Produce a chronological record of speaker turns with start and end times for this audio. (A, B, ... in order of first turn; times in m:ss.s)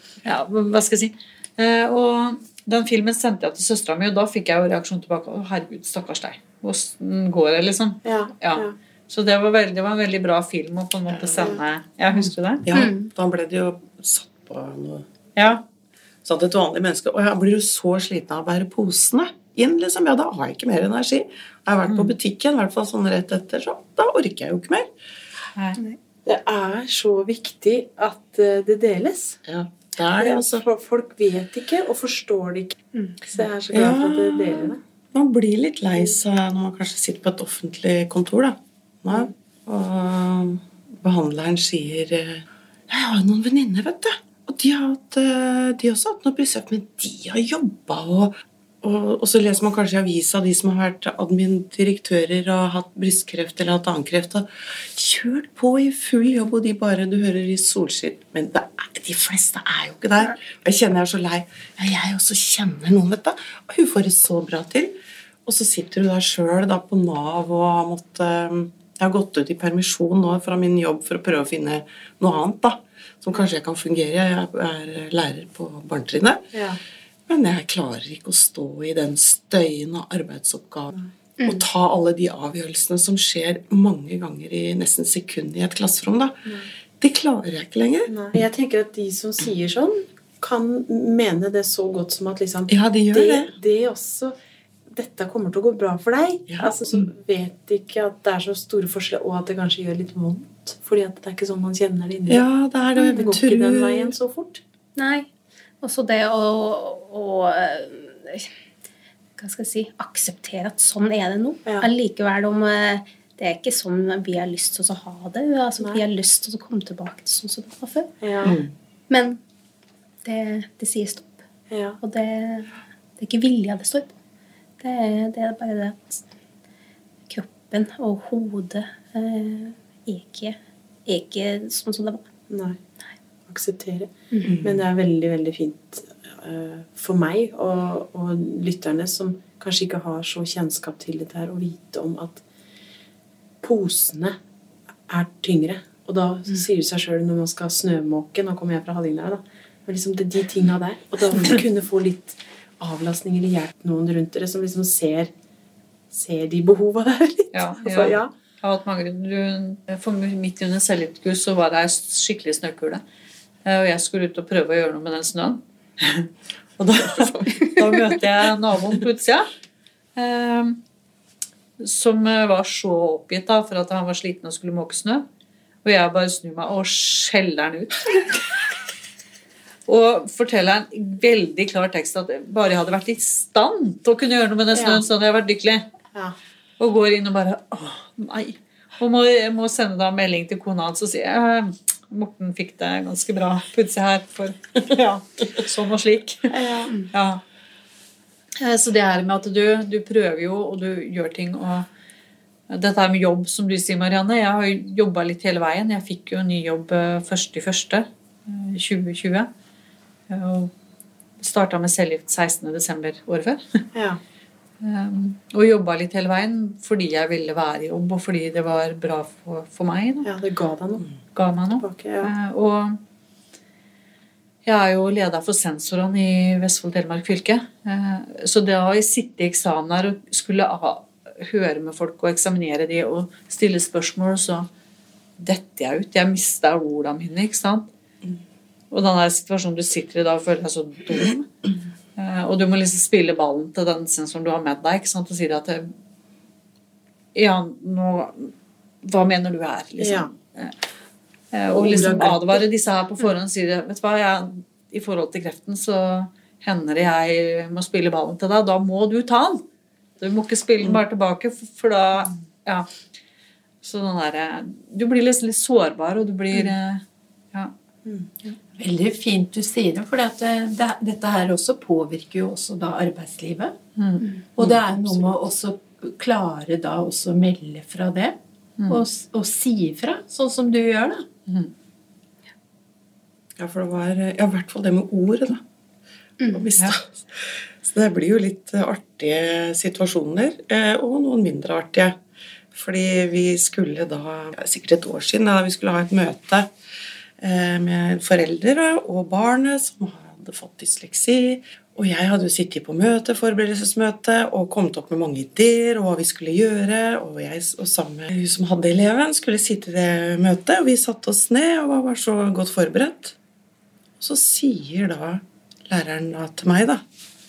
0:00.2-0:12.6 A
0:08.0-0:08.7 B
0:11.3-0:11.6 B
0:12.6-0:15.0 C
0:12.7-0:13.1 D
0:15.4-0:15.6 A
0:16.2-0:24.9 C
0:21.8-0:22.1 A
0:26.2-0:29.4 B
0:29.4-0:30.6 C
0:30.2-0:32.7 B
0:32.9-0:33.2 D
0:33.3-0:34.8 B
0:33.7-1:04.9 C
1:05.4-1:16.5 C
1:16.5-1:16.8 B
1:17.3-1:20.9 C
1:21.4-1:26.4 C
1:27.0-1:28.1 C
1:28.1-1:34.4 B
1:32.7-1:33.5 C
1:34.9-1:42.4 B
1:36.5-1:36.8 C
1:42.3-1:44.1 C
1:43.1-1:44.6 B
1:45.0-1:45.3 D
1:45.8-1:48.5 D
1:49.4-1:58.1 D
1:55.8-1:56.0 B
1:58.2-1:58.6 B
1:58.4-1:58.7 C
1:59.1-1:59.4 D
2:00.2-2:01.4 D
2:01.7-2:02.0 B
2:02.0-2:04.1 D
2:04.8-2:06.2 D
2:07.3-2:12.2 D
2:12.5-2:12.8 B
2:13.5-2:14.1 B
2:14.4-2:14.8 C
2:14.6-2:22.4 B
2:23.6-2:24.4 B
2:25.1-2:35.3 B
2:36.1-2:38.3 B
2:37.5-2:43.0 A
2:43.6-2:49.5 A
2:46.8-2:47.7 C
2:50.2-2:50.8 A
2:51.8-2:55.2 A
2:55.8-2:58.6 A
2:59.8-3:05.8 A
3:04.7-3:05.0 B
3:06.8-3:17.4 A
3:16.5-3:16.9 B
3:18.6-3:21.9 A
3:22.7-3:29.5 A
3:30.3-3:30.7 A
3:31.4-3:33.8 A
3:33.9-3:34.2 B
3:34.8-3:40.3 A
3:40.2-3:41.1 B
3:41.3-3:43.0 A
3:41.8-3:42.3 B
3:44.6-3:54.7 A
3:55.4-3:57.9 A
3:58.9-4:01.5 A
4:02.2-4:05.9 A
4:07.3-4:10.8 A
4:10.0-4:10.3 B
4:11.5-4:19.6 A
4:11.7-4:12.6 B
4:20.2-4:22.9 A
4:23.8-4:27.7 A
4:28.8-4:33.8 E
4:34.0-4:34.2 A
4:34.6-4:38.4 E
4:38.9-4:41.2 E
4:41.5-4:41.7 A
4:43.6-4:45.6 C
4:46.4-4:46.7 D
4:46.5-4:52.2 C
4:52.7-4:56.7 C
4:57.4-5:13.4 C
5:14.2-5:17.0 C